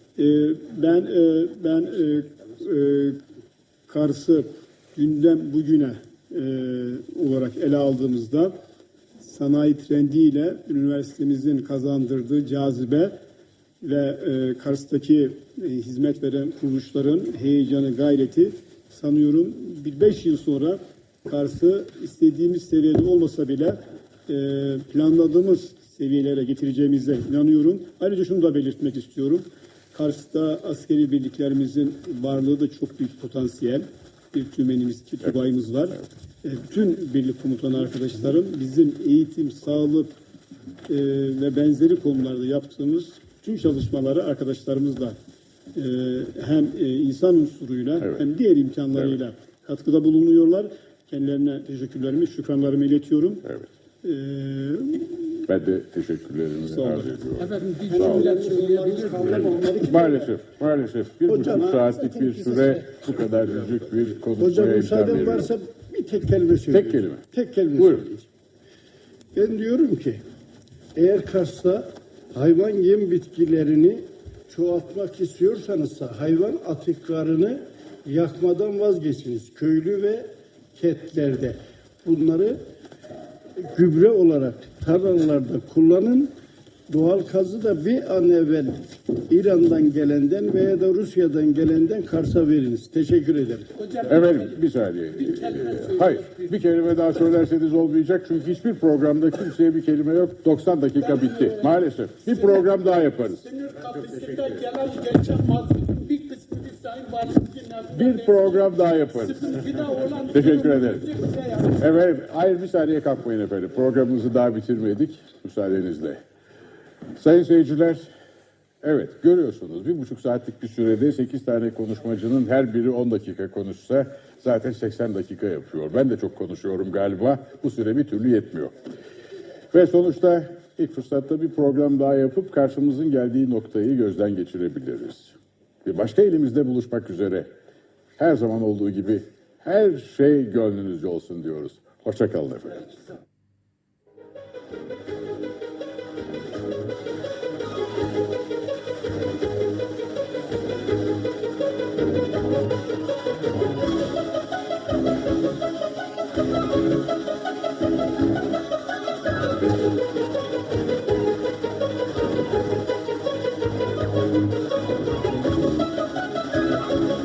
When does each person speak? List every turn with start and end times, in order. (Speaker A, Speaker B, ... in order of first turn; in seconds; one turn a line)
Speaker A: 0.2-3.2
Speaker A: 3.9-8.5
Speaker A: 9.2-13.1
Speaker A: 13.8-40.1
Speaker A: 40.9-45.1
Speaker A: 45.7-55.4
Speaker B: 55.5-58.3
Speaker A: 56.7-57.1
Speaker C: 57.4-59.4
Speaker D: 57.9-60.3
Speaker B: 59.8-65.5
Speaker D: 61.3-62.8
Speaker D: 64.4-68.3
Speaker B: 66.7-67.2
Speaker B: 67.8-68.1
Speaker D: 69.3-70.2
Speaker D: 70.9-82.6
Speaker D: 83.6-86.3
Speaker D: 86.9-93.7
Speaker C: 93.8-94.2
Speaker B: 94.0-103.5
Speaker C: 95.3-96.0
Speaker C: 103.4-111.7
Speaker B: 107.9-116.2
Speaker B: 117.1-118.1
Speaker B: 118.8-128.7
Speaker B: 129.7-137.5
Speaker B: 138.2-142.9